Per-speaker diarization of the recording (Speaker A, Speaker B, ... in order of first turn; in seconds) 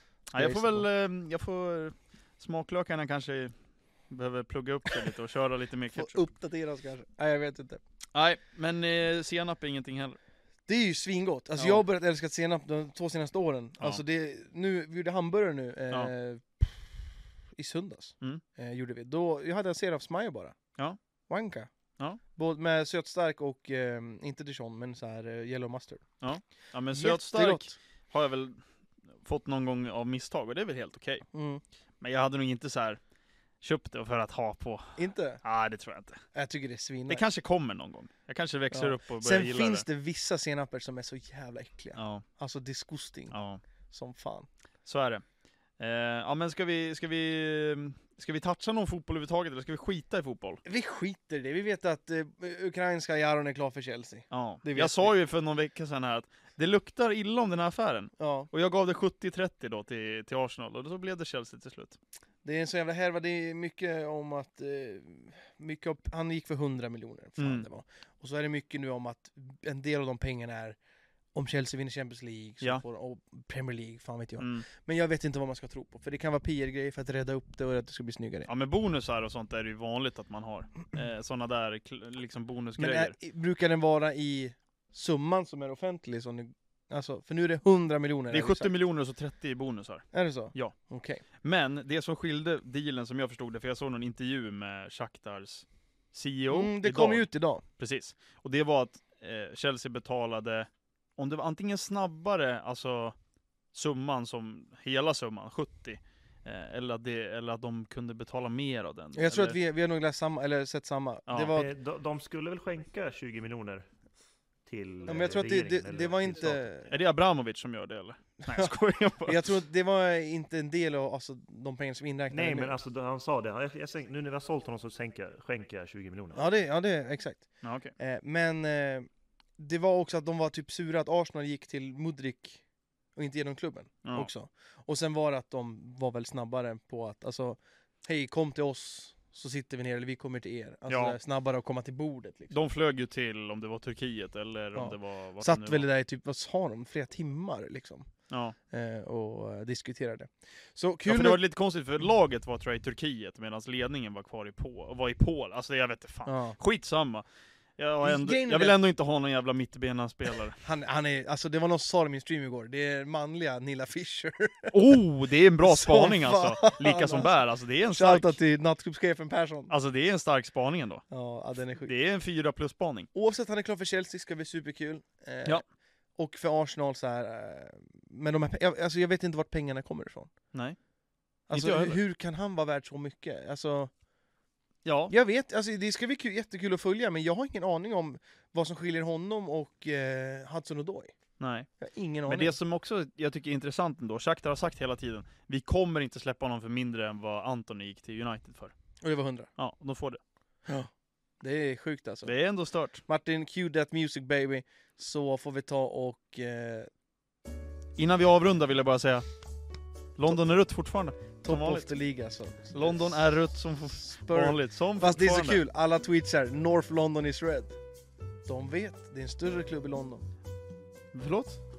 Speaker A: 0.3-3.5, 4.1-6.3, 8.1-10.2, 11.6-11.8, 26.2-28.6, 29.2-31.2, 32.0-33.0, 33.6-36.2, 37.1-39.9, 42.0-42.2, 43.3-43.6, 44.9-45.2, 45.8-50.6, 54.3-62.0, 67.4-67.7, 74.4-74.7, 78.5-83.2, 88.3-90.7, 91.4-97.3, 97.8-103.2, 103.7-109.6, 111.3-111.5, 116.9-119.5, 127.6-127.9, 134.0-134.3, 140.9-141.2, 142.5-145.9, 148.3-148.6, 151.1-157.2, 157.8-160.6, 164.7-168.4, 169.7-171.1, 171.8-173.1, 181.5-182.0, 184.8-185.1, 191.4-191.7, 192.3-198.7, 199.6-200.2, 202.3-203.0, 208.0-209.2, 210.2-212.0, 212.7-215.6, 221.1-221.6
Speaker B: 0.4-0.9, 6.0-7.8, 10.7-17.0, 17.5-20.6, 21.3-21.7, 22.4-26.1, 26.9-27.8, 31.3-31.6, 35.0-35.4, 36.3-37.2, 38.7-43.3, 43.9-44.5, 50.6-55.1, 58.2-58.5, 62.4-70.8, 71.3-78.5, 82.8-88.7, 90.1-91.2, 96.5-97.6, 109.2-111.7, 115.1-116.9, 118.4-122.8, 126.3-129.1, 129.6-132.6, 133.2-142.6, 144.8-148.1, 148.7-151.4, 156.3-156.6, 158.0-158.8, 160.6-164.8, 165.6-167.3, 167.9-169.7, 171.1-171.9, 173.1-175.6, 176.2-180.3, 181.5-183.9, 185.1-191.2, 191.8-192.6, 199.0-199.5, 201.4-202.3, 203.1-206.9, 211.4-213.3, 214.0-217.8, 218.4-220.3
Speaker C: 111.5-113.9, 114.7-116.7, 122.3-126.5